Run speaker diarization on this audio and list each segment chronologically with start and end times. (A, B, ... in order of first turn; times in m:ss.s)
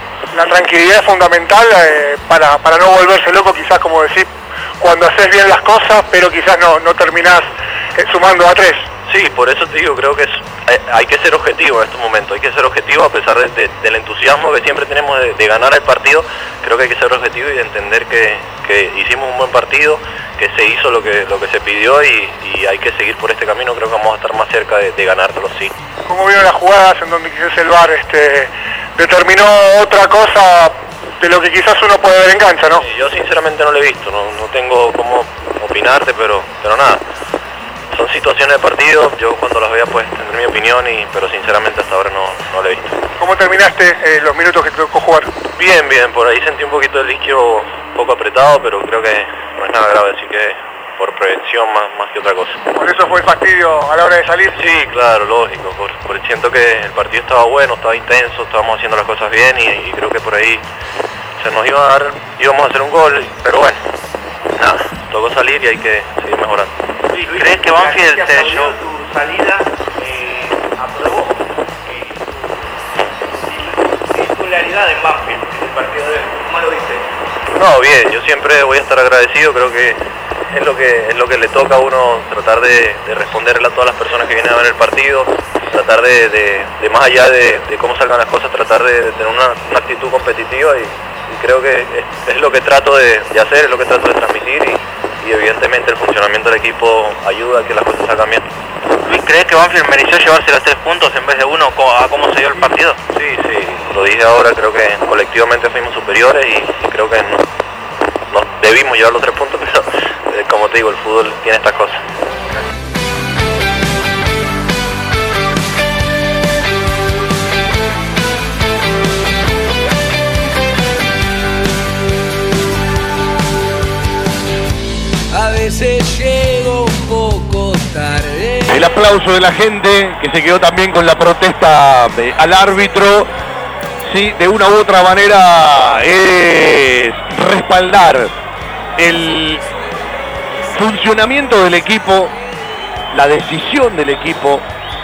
0:00.3-0:08.9 A
0:09.1-0:25.7 B
0:26.1-0:32.8 A
0:32.7-0:37.0 B
0:37.9-0:43.0 B
0:43.2-0:45.3 A
0:45.6-0:52.6 B
0:52.7-0:54.6 A
0:54.6-1:00.6 B
1:01.4-1:03.8 B
1:04.6-1:06.7 B
1:07.2-1:08.8 C
1:17.5-1:38.5 B
1:39.0-1:43.0 C
1:43.1-1:47.4 B
1:48.3-1:52.0 B
2:05.3-2:08.9 D
2:08.7-2:13.3 E
2:14.0-2:18.3 E
2:19.0-2:19.6 E
2:20.7-2:22.3 E
2:23.1-2:24.6 E